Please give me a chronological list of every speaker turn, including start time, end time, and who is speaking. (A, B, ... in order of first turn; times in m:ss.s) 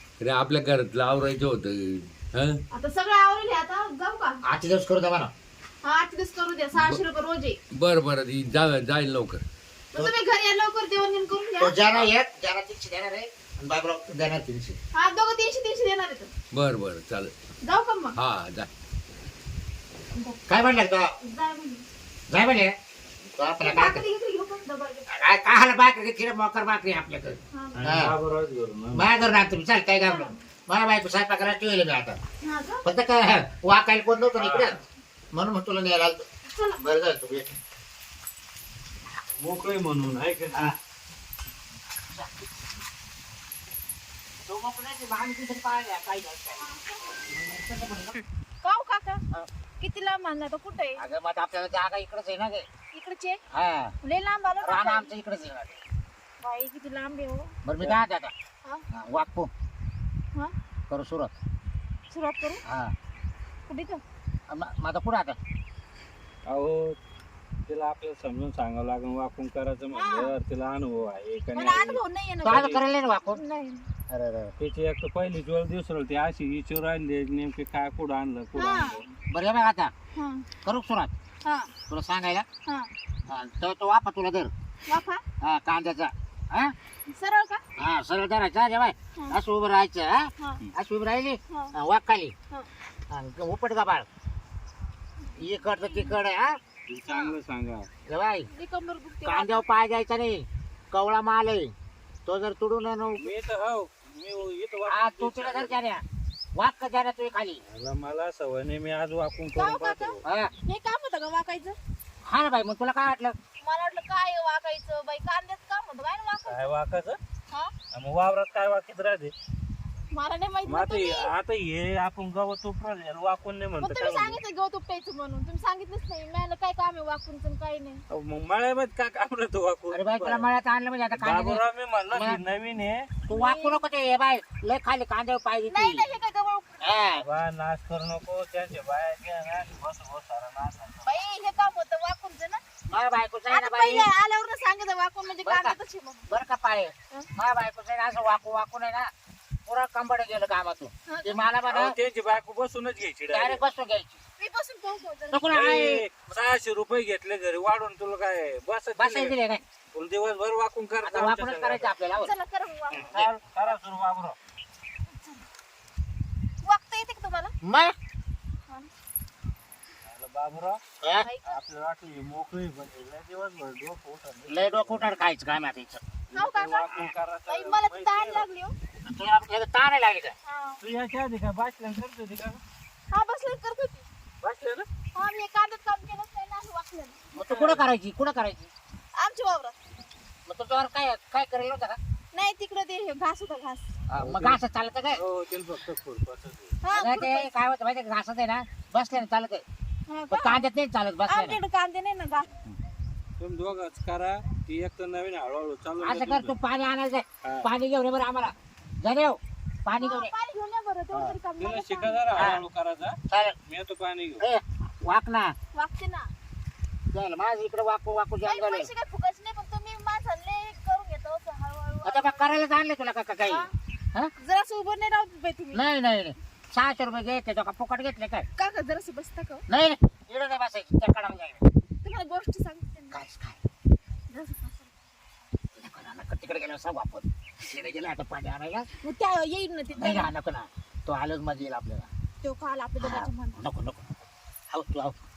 0:00.2-0:02.6 A
0:02.7-0:04.4 B
0:04.4-0:05.3 C
0:05.8-0:07.6 B
0:07.7-0:09.4 A
0:09.9-0:11.8 B
0:11.6-0:14.8 C
0:14.9-0:16.3 B
0:16.5-0:17.3 A
0:17.6-0:18.2 B
0:18.2-0:18.7 A
0:20.2-0:20.4 B
0:20.5-0:21.1 C
0:21.2-0:21.8 B
0:22.3-0:22.7 C
0:23.4-0:24.0 C
0:23.6-0:25.2 B
0:25.1-0:28.2 C
0:27.5-0:27.8 B
0:27.8-0:29.2 D
0:28.9-0:32.2 C
0:30.0-0:30.4 B
0:32.4-0:32.8 B
0:32.8-0:34.8 C
0:34.4-0:34.8 D
0:35.3-0:36.3 C
0:36.5-0:36.8 B
0:36.8-0:37.6 C
0:39.4-0:40.8 D
0:42.1-0:42.5 C
0:44.5-0:46.6 C
0:46.6-0:47.2 B
0:47.3-0:48.2 C
0:48.6-0:49.2 B
0:49.8-0:51.0 B
0:51.0-0:52.7 C
0:52.9-0:53.4 B
0:53.5-0:53.9 C
0:54.0-0:55.1 B
0:54.6-0:55.8 C
0:56.4-0:57.5 B
0:57.6-0:58.3 C
0:58.9-0:59.5 C
1:00.9-1:01.3 C
1:02.1-1:02.6 B
1:02.7-1:02.9 C
1:03.7-1:04.0 B
1:04.5-1:05.4 C
1:06.5-1:07.0 D
1:07.7-1:12.8 D
1:09.9-1:10.4 B
1:11.5-1:13.9 B
1:12.4-1:13.4 C
1:14.1-1:14.6 C
1:14.6-1:19.0 D
1:18.6-1:19.0 B
1:19.3-1:19.9 C
1:20.2-1:20.5 B
1:20.6-1:21.1 C
1:21.4-1:21.7 B
1:21.9-1:22.5 C
1:23.3-1:24.5 C
1:24.9-1:25.2 B
1:25.4-1:26.8 C
1:27.1-1:27.6 B
1:27.8-1:32.3 C
1:31.5-1:31.7 B
1:33.1-1:34.1 C
1:35.4-1:36.6 C
1:35.8-1:36.1 B
1:36.9-1:37.9 D
1:37.1-1:37.3 B
1:38.1-1:38.5 C
1:38.5-1:39.6 B
1:39.2-1:41.7 C
1:42.3-1:43.3 C
1:43.2-1:45.8 D
1:44.9-1:46.0 C
1:46.6-1:47.6 C
1:47.7-1:50.2 D
1:49.5-1:51.8 B
1:50.2-1:50.5 C
1:52.2-1:53.4 C
1:53.6-1:56.7 B
1:56.5-1:57.2 D
1:57.9-1:59.3 D
2:00.1-2:01.3 B
2:00.7-2:04.4 D
2:03.8-2:08.0 B
2:08.1-2:10.5 D
2:09.9-2:12.4 C
2:11.1-2:13.1 D
2:13.3-2:16.1 C
2:13.3-2:13.8 B
2:15.7-2:16.9 B
2:16.8-2:17.3 C
2:17.2-2:21.1 D
2:21.0-2:22.6 B
2:22.9-2:24.1 C
2:23.5-2:26.3 B
2:25.4-2:25.8 C
2:26.3-2:29.1 C
2:29.7-2:32.0 C
2:31.1-2:31.4 B
2:31.7-2:33.6 D
2:33.3-2:34.2 C
2:34.4-2:35.7 B
2:35.3-2:36.1 C
2:35.5-2:39.4 D
2:39.0-2:39.6 C
2:39.9-2:41.9 D
2:41.0-2:42.3 C
2:42.2-2:43.1 B
2:42.9-2:44.4 D
2:45.1-2:45.4 B
2:46.6-2:47.5 B
2:47.6-2:48.0 C
2:50.1-2:50.8 D
2:51.0-2:51.3 C
2:51.2-2:51.6 B
2:51.5-2:55.1 D
2:54.5-2:56.0 C
2:56.3-2:58.5 D
2:56.4-2:56.9 B
2:57.5-2:58.8 B
2:59.0-3:00.4 C
3:00.4-3:00.8 B
3:00.8-3:02.6 D
3:03.1-3:04.1 B
3:04.4-3:04.9 D
3:05.1-3:07.2 B
3:07.3-3:07.9 D
3:07.3-3:08.7 C
3:09.2-3:09.8 B
3:10.5-3:12.0 C
3:12.3-3:13.9 B
3:14.1-3:15.2 C
3:14.1-3:14.6 D
3:15.1-3:16.8 D
3:16.8-3:17.5 B
3:16.9-3:19.6 C
3:20.1-3:20.6 B
3:20.3-3:21.6 C
3:21.3-3:22.5 B
3:23.4-3:26.6 D
3:26.0-3:30.3 C
3:27.4-3:27.7 D
3:30.0-3:32.6 B
3:31.6-3:34.4 D
3:32.4-3:32.6 C
3:33.3-3:33.6 C
3:34.4-3:35.5 C
3:35.7-3:36.3 B
3:37.1-3:38.9 C
3:38.4-3:42.6 B
3:42.0-3:44.3 C
3:44.4-3:45.8 B
3:45.7-3:48.5 C
3:48.6-3:49.6 B
3:49.7-3:51.6 C
3:52.0-3:53.2 B
3:53.1-3:53.6 C
3:54.3-3:55.1 B
3:55.8-3:58.9 C
3:59.0-4:00.3 B
4:00.0-4:02.1 C
4:02.4-4:03.6 B
4:03.0-4:04.1 C
4:04.7-4:05.2 C